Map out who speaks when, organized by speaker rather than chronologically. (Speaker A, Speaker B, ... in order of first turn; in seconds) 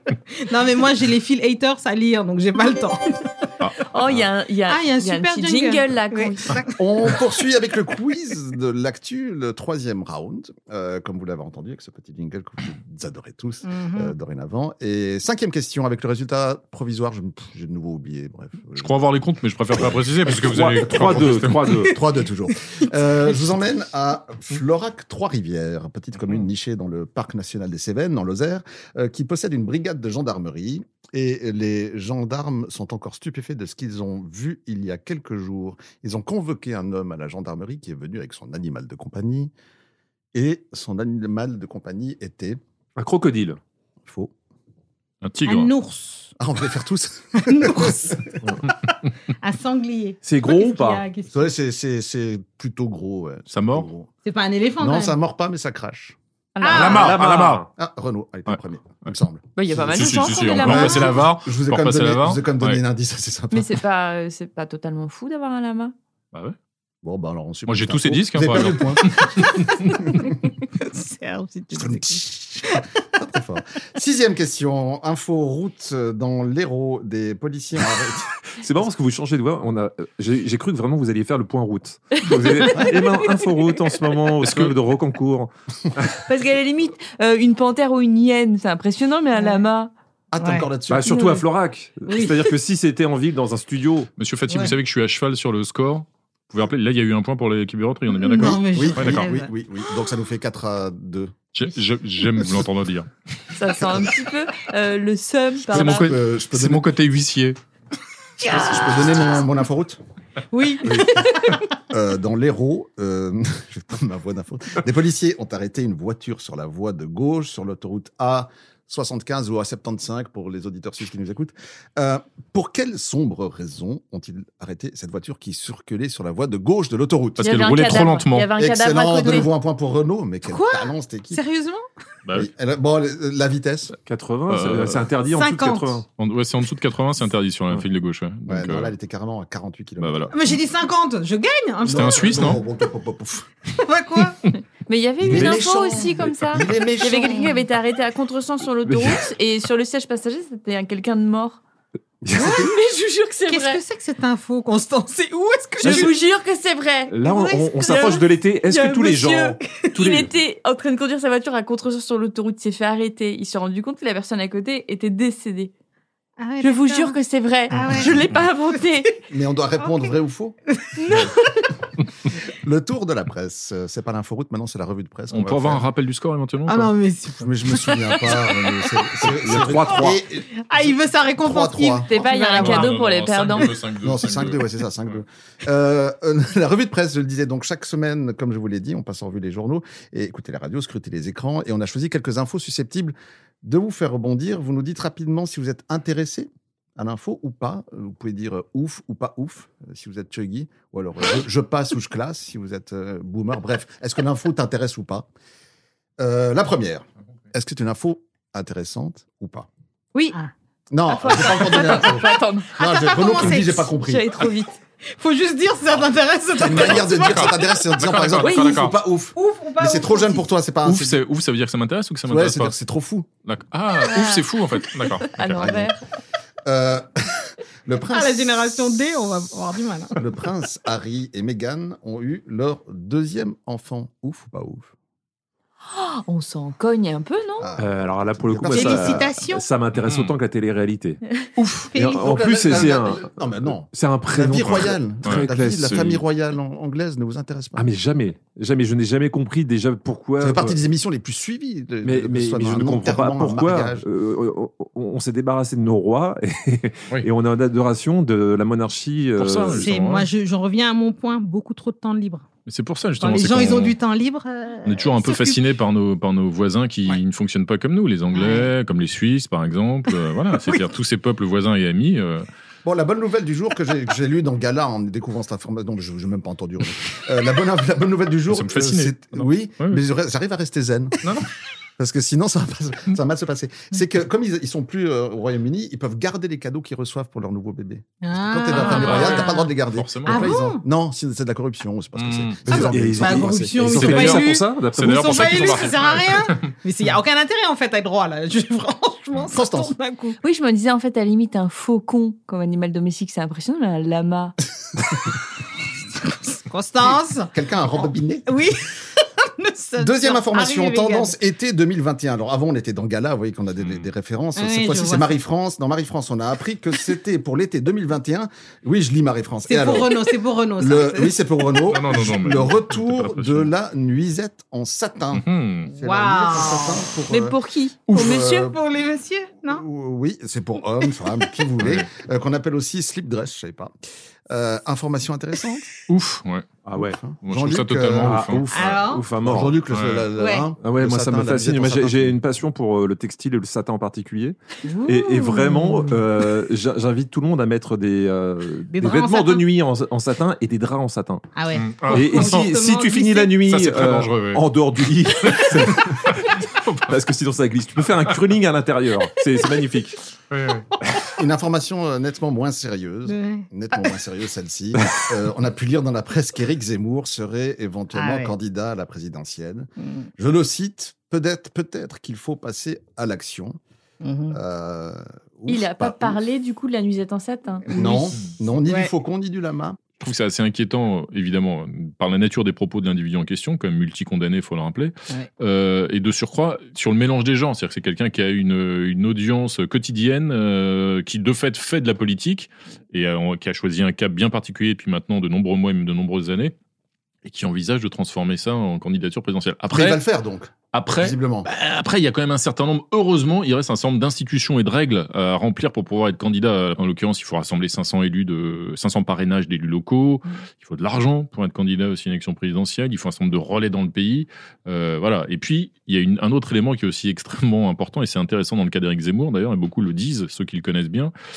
Speaker A: 0.3-3.3, 4.7-6.8, 13.6-14.1, 45.5-46.3, 47.4-48.2, 49.4-51.5, 54.2-55.2, 56.6-57.1, 70.8-72.8, 89.4-89.6, 90.4-90.7, 92.1-92.4, 98.2-99.5, 108.4-108.8, 110.5-111.7, 130.5-131.8, 135.3-136.0, 140.3-142.5, 143.8-144.4, 152.4-152.7, 153.5-156.1, 157.2-157.7, 166.4-167.2, 167.7-168.2, 170.7-171.7, 176.7-178.3, 180.6-183.0, 212.8-213.9, 215.1-217.5, 219.3-220.4, 228.1-230.2, 238.7-239.7, 241.9-242.3, 259.7-262.5, 263.2-265.6, 268.4-268.6, 288.2-289.7, 290.3-290.8, 292.7-300.4, 306.2-307.5, 308.5-308.9, 309.4-311.4, 314.6-315.3, 319.7-321.4, 326.0-327.0, 328.1-329.8, 338.7-339.2, 340.4-340.7, 344.9-346.0, 348.9-349.7, 351.6-353.6, 363.3-363.7, 368.1-368.6, 370.0-370.3, 374.2-374.6, 377.9-379.1
Speaker B: 3.6-4.2, 18.8-21.7, 45.2-45.7, 53.5-53.9, 56.8-57.6, 58.5-59.1, 59.9-62.8, 67.7-70.0, 84.4-84.7, 94.2-99.3, 101.5-103.1, 105.7-107.6, 127.4-128.5, 134.5-135.0, 136.2-138.9, 140.0-140.3, 141.9-142.6, 175.3-176.9, 182.6-185.1, 216.8-219.0, 220.8-222.7, 223.4-225.4, 240.0-240.3, 241.6-241.9, 244.6-245.5, 259.4-260.3, 262.7-264.0, 264.9-272.5, 278.5-280.0, 288.7-290.5, 292.2-292.6, 293.9-296.7, 313.8-314.1, 321.9-323.7, 325.3-325.9, 331.8-332.1, 336.1-336.7, 337.4-338.6, 339.9-340.3, 351.7-352.7, 353.7-354.6, 355.4-356.3, 356.8-357.1, 360.5-360.9, 380.2-396.7, 397.4-400.2, 400.9-421.3
Speaker C: 3.9-6.7, 56.6-57.4, 59.6-61.3, 63.5-66.0, 82.2-83.2, 86.3-89.9, 91.1-91.4, 103.5-106.1, 127.4-129.5, 144.9-151.6, 152.3-153.8, 155.8-165.7, 166.6-169.2, 182.1-183.8, 211.1-212.7, 213.9-214.8, 218.4-218.8, 224.0-226.0, 235.9-237.7, 300.4-304.6, 327.3-328.6, 375.7-377.9
Speaker D: 6.8-19.1, 19.8-39.5, 40.3-42.6, 44.0-44.3, 46.4-48.2, 51.3-54.1, 54.8-56.2, 57.8-63.8, 67.0-69.5, 70.1-70.3, 71.7-78.3, 90.3-91.1, 98.4-101.3, 105.7-106.9, 108.4-110.0, 110.8-127.5, 128.6-131.4, 132.3-133.9, 138.5-140.4, 141.8-143.5, 145.2-147.6, 169.3-170.6, 172.6-175.8, 177.4-182.1, 184.0-205.3, 206.2-209.7, 210.9-214.3, 216.6-221.2, 222.3-223.3, 225.4-225.9, 226.7-229.0, 230.2-234.9, 237.6-239.3, 242.2-247.9, 250.4-254.1, 272.9-281.2, 282.0-294.0, 299.5-299.9, 307.5-308.6, 310.0-320.2, 320.8-327.6, 328.1-328.8, 329.6-333.9, 334.5-335.9, 337.0-338.9, 339.4-342.4, 361.4-373.8, 374.5-376.4, 377.9-380.1, 399.9-401.7
Speaker E: 20.4-21.9, 43.0-43.6, 50.2-51.0, 56.8-57.7, 78.6-86.2, 90.9-94.1, 134.1-136.1, 145.3-145.5, 148.8-149.2, 152.2-152.7, 155.8-156.1, 157.1-160.3, 179.3-180.2, 237.8-241.2, 241.9-246.2, 247.8-250.8, 252.0-259.9, 292.7-295.9, 336.9-337.2, 338.2-339.8, 340.8-351.4, 352.1-356.6, 357.1-360.2